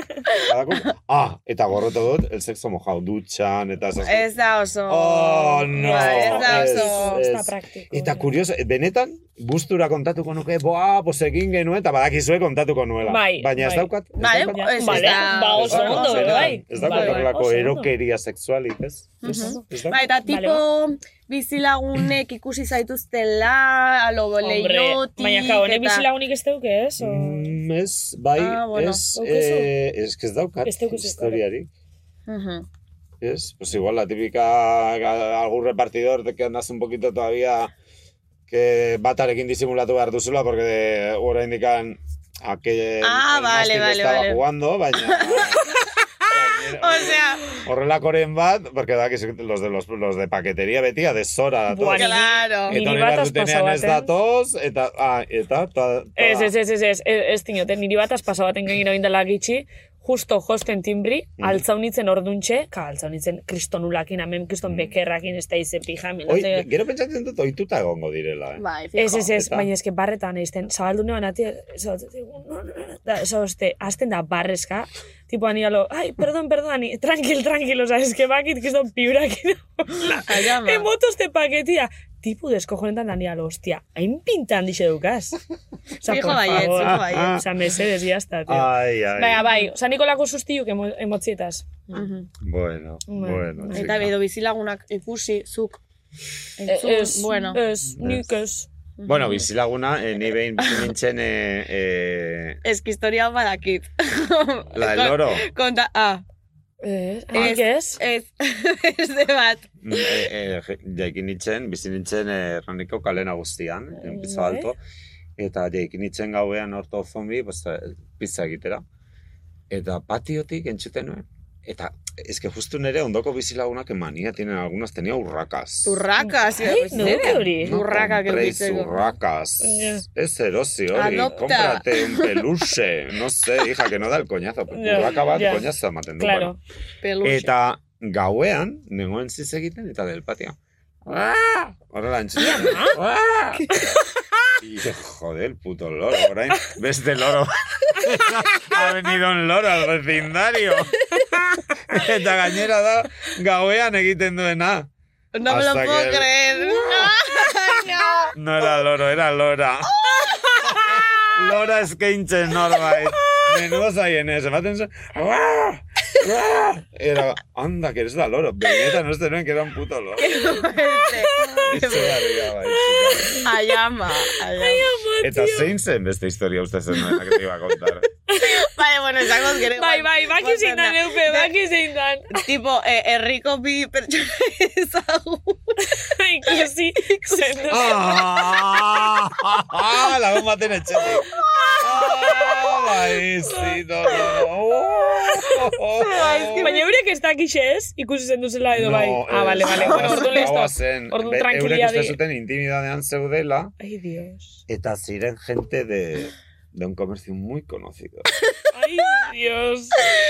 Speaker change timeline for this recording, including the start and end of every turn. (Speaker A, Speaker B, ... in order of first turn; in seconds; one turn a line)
Speaker A: 0.4-4.3
Speaker B: 4.0-7.2
Speaker A: 4.9-20.0
Speaker C: 5.8-8.3
Speaker C: 13.1-13.9
Speaker B: 14.2-17.3
Speaker C: 14.5-17.9
Speaker B: 19.2-26.1
Speaker C: 19.2-20.7
Speaker C: 24.4-27.6
Speaker A: 27.0-31.7
Speaker B: 28.4-29.0
Speaker C: 29.1-29.7
Speaker C: 30.6-31.4
Speaker B: 32.3-32.7
Speaker A: 33.2-37.7
Speaker A: 38.5-45.7
Speaker B: 43.0-44.4
Speaker B: 45.0-45.6
Speaker A: 46.3-56.5
Speaker B: 46.8-47.5
Speaker C: 51.7-54.1
Speaker B: 51.9-52.8
Speaker C: 56.2-66.7
Speaker A: 64.7-64.9
Speaker A: 66.3-68.6
Speaker B: 68.6-69.3
Speaker C: 69.0-85.4
Speaker A: 69.2-69.7
Speaker B: 80.2-80.9
Speaker C: 86.0-92.0
Speaker B: 86.0-87.4
Speaker A: 86.5-87.5
Speaker A: 88.5-89.5
Speaker B: 91.9-92.3
Speaker A: 92.4-94.1
Speaker C: 93.1-93.9
Speaker B: 93.7-95.8
Speaker B: 96.6-97.6
Speaker C: 96.7-98.7
Speaker A: 98.0-98.3
Speaker B: 99.0-99.4
Speaker A: 99.1-102.6
Speaker B: 102.6-106.2
Speaker A: 104.7-105.5
Speaker C: 106.8-108.0
Speaker B: 107.3-110.1
Speaker A: 109.8-114.8
Speaker C: 114.0-114.7
Speaker A: 115.4-118.8
Speaker A: 119.7-126.0
Speaker B: 125.8-129.0
Speaker C: 126.2-127.8
Speaker A: 126.9-136.6
Speaker C: 129.6-130.0
Speaker B: 130.9-132.4
Speaker C: 134.7-135.7
Speaker C: 136.2-136.6
Speaker B: 137.0-137.5
Speaker A: 137.2-143.7
Speaker C: 142.5-143.0
Speaker A: 144.6-151.1
Speaker A: 151.9-154.9
Speaker B: 155.3-158.4
Speaker A: 155.4-157.1
Speaker A: 158.3-160.0
Speaker B: 159.9-161.0
Speaker A: 161.2-170.6
Speaker B: 170.2-172.3
Speaker A: 171.2-173.5
Speaker C: 172.6-173.5
Speaker B: 173.4-174.9
Speaker C: 174.4-175.7
Speaker A: 175.2-178.1
Speaker C: 178.3-178.7
Speaker B: 178.3-181.5
Speaker C: 179.7-182.4
Speaker B: 182.3-185.9
Speaker C: 185.8-188.4
Speaker B: 186.5-187.9
Speaker A: 187.7-196.7
Speaker B: 191.4-191.8
Speaker C: 193.5-193.8
Speaker B: 196.0-196.9
Speaker C: 196.5-202.2
Speaker A: 198.7-203.7
Speaker B: 199.7-200.5
Speaker C: 203.8-204.6
Speaker A: 204.7-208.3
Speaker C: 208.7-210.0